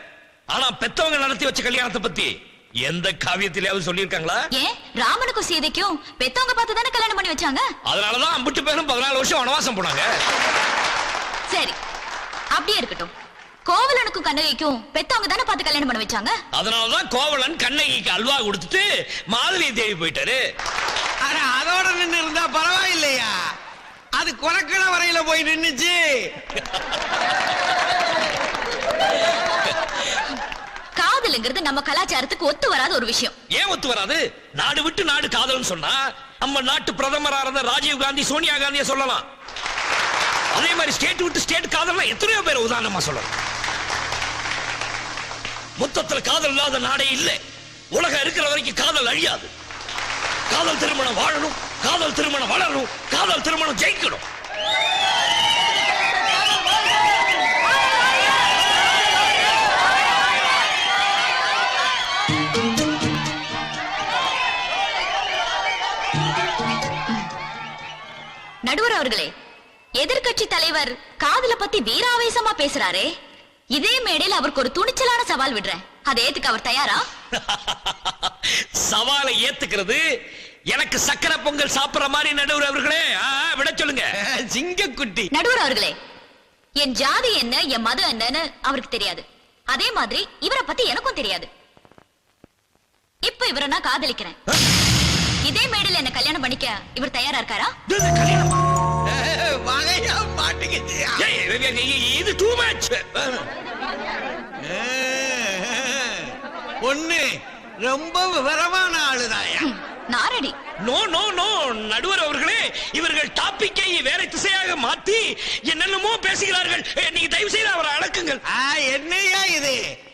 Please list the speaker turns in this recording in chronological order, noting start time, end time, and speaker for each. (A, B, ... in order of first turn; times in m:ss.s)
0:00.5-0:02.3 A
0:02.8-0:04.4 A
0:04.5-0:07.6 B
0:07.9-0:10.1 A
0:11.5-0:11.8 B
0:12.5-0:13.1 B
0:13.7-0:16.3 B
0:16.5-0:20.4 A
0:21.2-0:23.3 C
0:24.2-0:26.0 C
0:31.0-0:33.4 B
0:33.6-0:39.2 A
0:40.5-0:43.3 A
0:45.8-0:47.4 A
0:47.9-0:49.5 A
0:50.5-0:54.2 A
1:08.6-1:09.3 B
1:10.0-1:13.1 B
1:13.8-1:17.0 B
1:17.4-1:18.3 A
1:18.8-1:20.0 A
1:20.7-1:24.1 A
1:24.2-1:25.3 C
1:25.3-1:26.0 B
1:26.8-1:31.5 B
1:33.2-1:34.4 B
1:35.4-1:37.8 B
1:37.9-1:38.6 A
1:39.1-1:41.2 C
1:41.2-1:43.5 A
1:44.7-1:47.3 C
1:47.8-1:49.7 C
1:49.6-1:50.5 B
1:50.8-1:58.4 A
1:58.5-1:59.8 C